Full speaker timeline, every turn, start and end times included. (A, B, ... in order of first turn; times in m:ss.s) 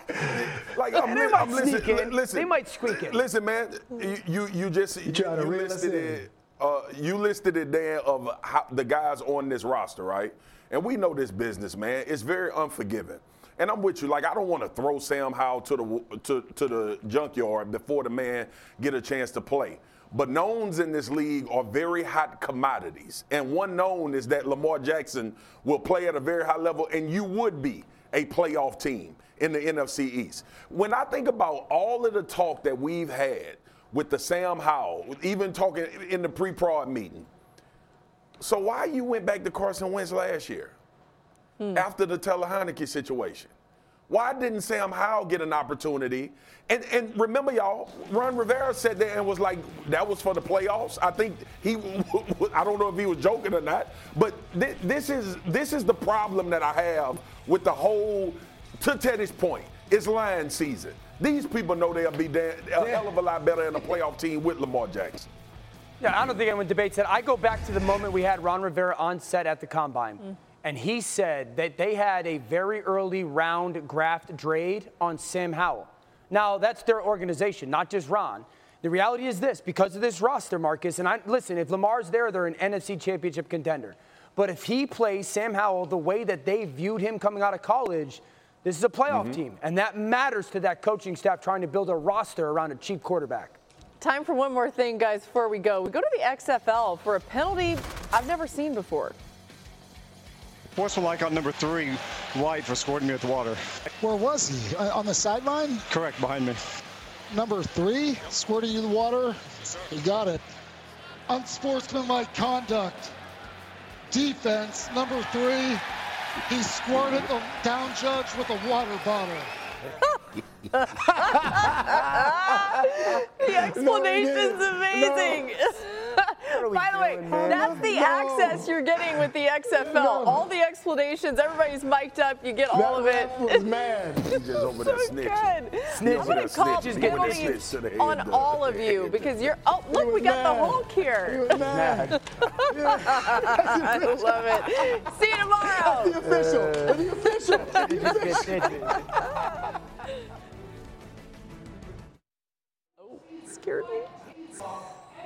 0:00.1-0:37.3 A
0:00.9-0:03.2 B
0:05.0-0:06.2 C
0:38.4-0:40.7 A
0:41.7-0:43.5 A
0:44.1-1:05.3 A
1:02.8-1:03.1 B
1:06.0-1:33.6 B
1:29.1-1:29.4 A
1:34.0-1:39.2 D
1:40.8-1:43.6 E
1:44.0-1:45.9 F
1:45.9-1:46.6 E
1:47.3-1:50.4 F
1:51.3-1:53.1 F
1:54.1-1:55.8 F
1:56.5-1:59.5 F
2:00.8-2:13.6 D
2:01.3-2:05.4 C
2:06.5-2:07.9 B
2:07.2-2:09.2 C
2:09.8-2:10.5 C
2:12.7-2:14.4 C
2:14.2-2:19.4 A
2:14.6-2:21.6 D
2:16.0-2:17.8 B
2:19.9-2:24.7 C
2:21.7-2:22.1 B
2:22.1-2:26.2 D
2:25.7-2:28.6 C
2:27.5-2:28.0 D
2:27.7-2:29.0 B
2:33.0-2:34.1 D